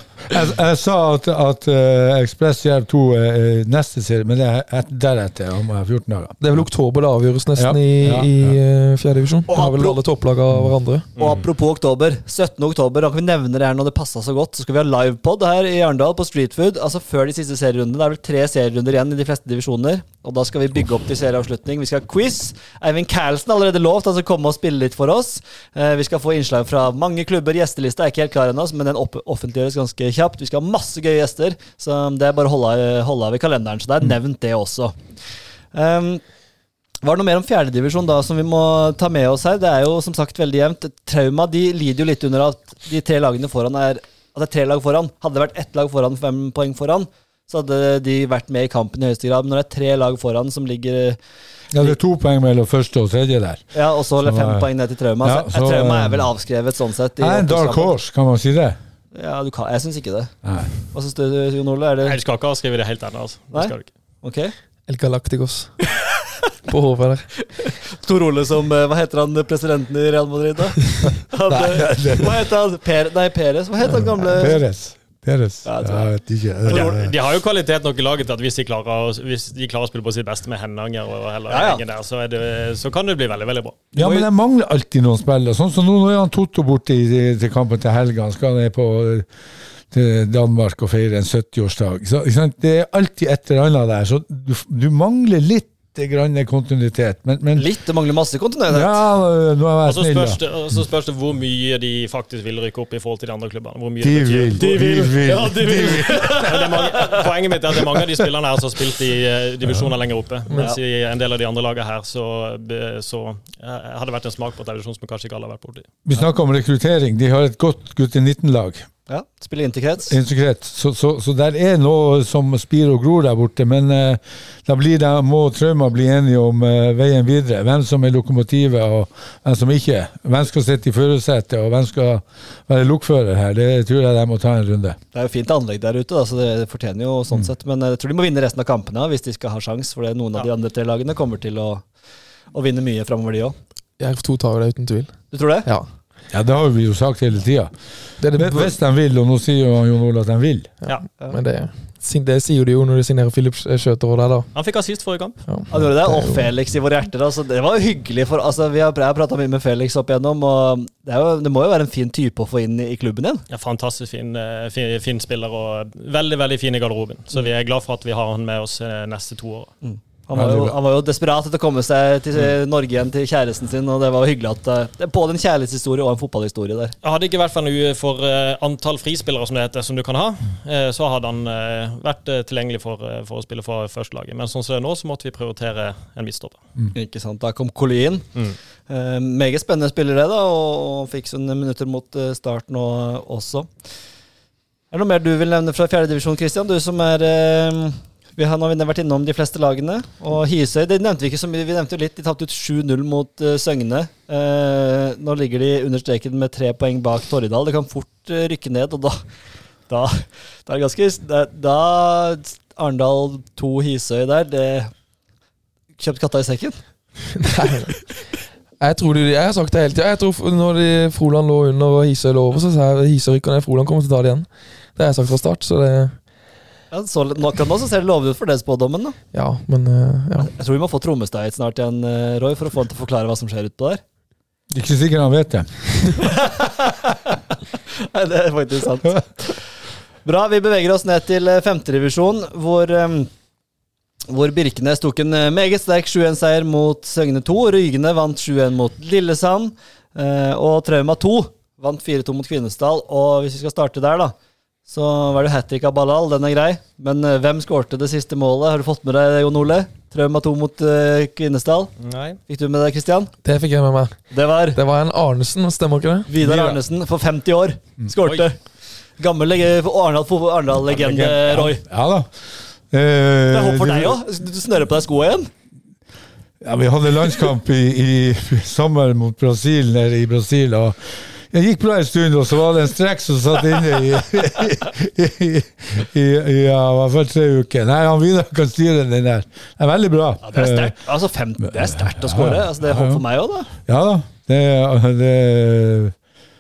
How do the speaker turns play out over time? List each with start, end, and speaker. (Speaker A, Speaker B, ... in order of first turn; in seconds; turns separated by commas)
Speaker A: 0.3-6.6, Speaker B: 6.4-11.1, Speaker A: 7.6-8.6, Speaker C: 9.5-10.0, Speaker A: 10.5-10.8, Speaker D: 11.2-11.4, Speaker C: 11.2-35.0, Speaker C: 35.7-36.2, Speaker C: 37.0-51.2, Speaker A: 51.7-54.7, Speaker C: 53.7-57.9, Speaker A: 55.2-56.3, Speaker A: 57.2-58.8, Speaker C: 59.1-60.4, Speaker A: 60.4-60.7, Speaker C: 60.9-62.2, Speaker D: 62.0-63.9, Speaker C: 63.5-64.5, Speaker B: 64.9-65.7, Speaker B: 66.7-67.3, Speaker C: 67.6-74.6, Speaker A: 71.5-72.3, Speaker A: 73.9-77.1, Speaker C: 75.7-77.0, Speaker D: 76.7-83.8, Speaker C: 81.5-81.8, Speaker A: 83.9-89.3, Speaker C: 84.0-84.3, Speaker A: 89.9-97.7, Speaker C: 97.6-99.0, Speaker A: 98.7-100.4, Speaker D: 99.9-115.9, Speaker A: 104.0-106.7, Speaker C: 104.6-107.3, Speaker B: 110.5-110.7, Speaker A: 116.0-118.9, Speaker C: 119.1-120.2, Speaker A: 120.1-135.0, Speaker C: 135.1-141.9, Speaker C: 142.5-143.5, Speaker B: 144.0-145.9, Speaker C: 145.3-145.7, Speaker A: 146.3-147.7, Speaker B: 148.2-148.8, Speaker A: 148.3-150.7, Speaker B: 150.8-154.5, Speaker D: 154.5-155.4, Speaker B: 155.5-156.5, Speaker C: 155.7-163.4, Speaker D: 163.5-169.7, Speaker C: 169.8-176.9, Speaker A: 170.3-170.8, Speaker D: 177.0-186.6, Speaker C: 186.9-188.3, Speaker C: 188.9-193.7, Speaker C: 194.9-209.2, Speaker C: 209.9-214.9, Speaker C: 216.0-216.8, Speaker B: 217.4-218.0, Speaker B: 218.8-226.2, Speaker C: 226.9-229.2, Speaker B: 229.3-230.5, Speaker C: 230.4-234.0, Speaker A: 234.7-236.1, Speaker C: 236.2-237.3, Speaker C: 238.1-239.6, Speaker C: 240.2-243.3, Speaker C: 244.3-254.3, Speaker C: 254.9-261.9, Speaker D: 262.0-262.4, Speaker C: 262.5-263.3, Speaker B: 263.4-266.3, Speaker C: 264.3-264.8, Speaker C: 266.3-268.6, Speaker A: 266.4-266.8, Speaker C: 269.2-271.8, Speaker A: 270.9-272.3, Speaker A: 272.9-274.2, Speaker C: 273.5-275.5, Speaker A: 276.6-291.0, Speaker C: 290.4-293.7, Speaker A: 291.6-293.2, Speaker A: 293.9-296.1